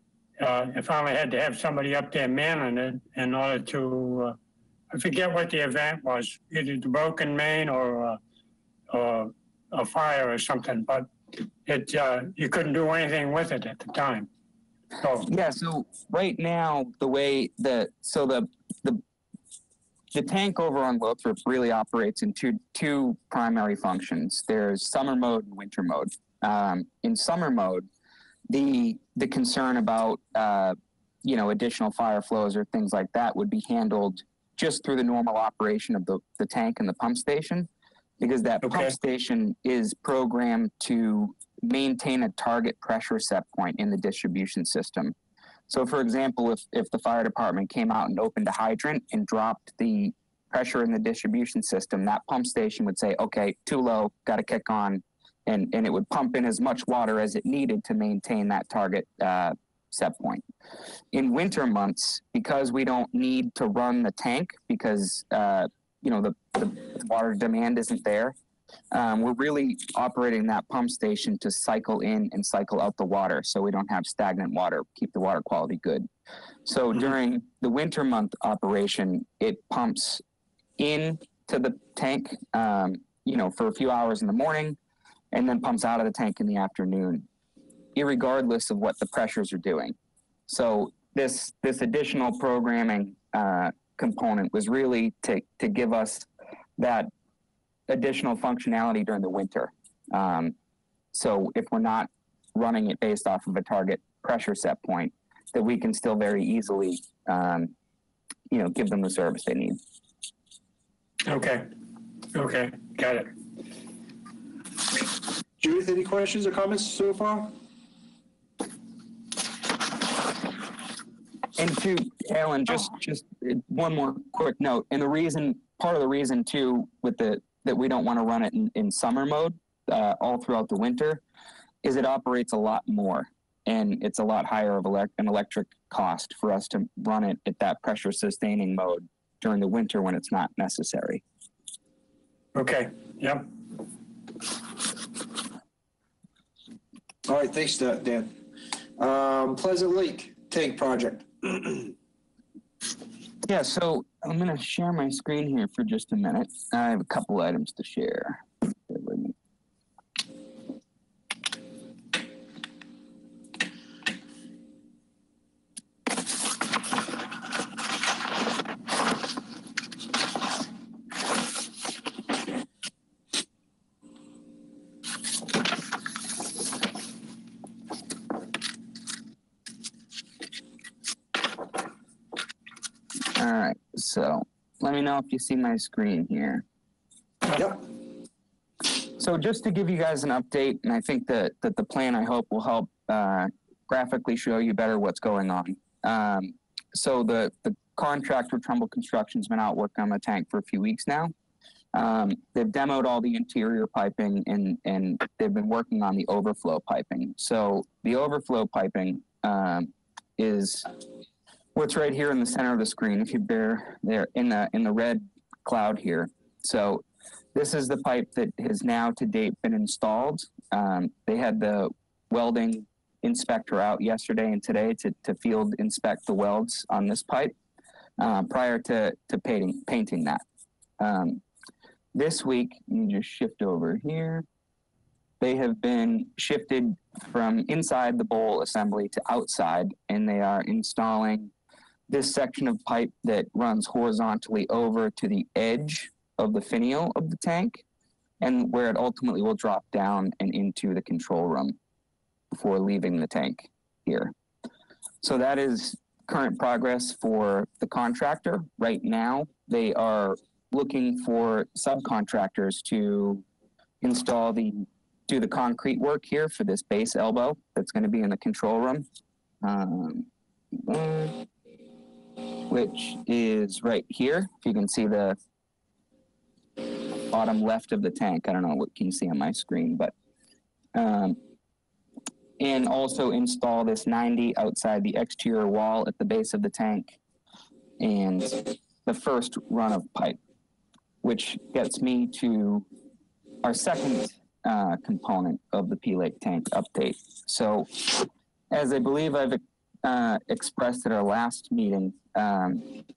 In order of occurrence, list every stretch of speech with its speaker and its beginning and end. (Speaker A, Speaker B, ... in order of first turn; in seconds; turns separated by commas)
Speaker A: 0.4-4.4, Speaker A: 4.9-8.2, Speaker A: 8.9-11.1, Speaker A: 11.6-14.3, Speaker A: 15.0-15.3, Speaker B: 15.2-19.0, Speaker B: 20.1-27.9, Speaker B: 28.5-37.7, Speaker B: 38.2-45.1, Speaker A: 38.6-38.9, Speaker B: 45.7-60.4, Speaker B: 61.1-68.3, Speaker B: 68.9-76.1, Speaker B: 76.7-80.2, Speaker B: 80.8-84.8, Speaker B: 85.3-87.2, Speaker B: 87.9-89.9, Speaker B: 90.5-96.3, Speaker B: 96.8-97.1, Speaker B: 97.9-100.5, Speaker B: 101.1-107.7, Speaker B: 108.5-109.8, Speaker A: 111.2-111.7, Speaker A: 112.3-113.3, Speaker C: 115.6-117.5, Speaker B: 121.5-131.2, Speaker B: 131.8-141.2, Speaker A: 142.5-143.5, Speaker C: 147.2-148.3, Speaker C: 149.0-151.9, Speaker B: 153.4-159.3, Speaker B: 183.3-186.6, Speaker C: 187.5-187.9, Speaker B: 189.2-201.3, Speaker B: 201.9-210.9, Speaker B: 211.7-227.5, Speaker B: 228.2-230.4, Speaker B: 231.0-231.4, Speaker B: 232.1-234.4, Speaker B: 235.4-241.5, Speaker B: 242.1-247.8, Speaker B: 248.4-251.8, Speaker B: 252.5-254.3, Speaker B: 255.2-263.4, Speaker B: 264.0-269.1, Speaker B: 269.6-271.4, Speaker B: 272.7-275.4, Speaker B: 277.3-280.1, Speaker B: 280.9-281.4, Speaker B: 282.6-287.2, Speaker B: 288.0-290.4, Speaker B: 291.2-292.9, Speaker B: 293.6-302.9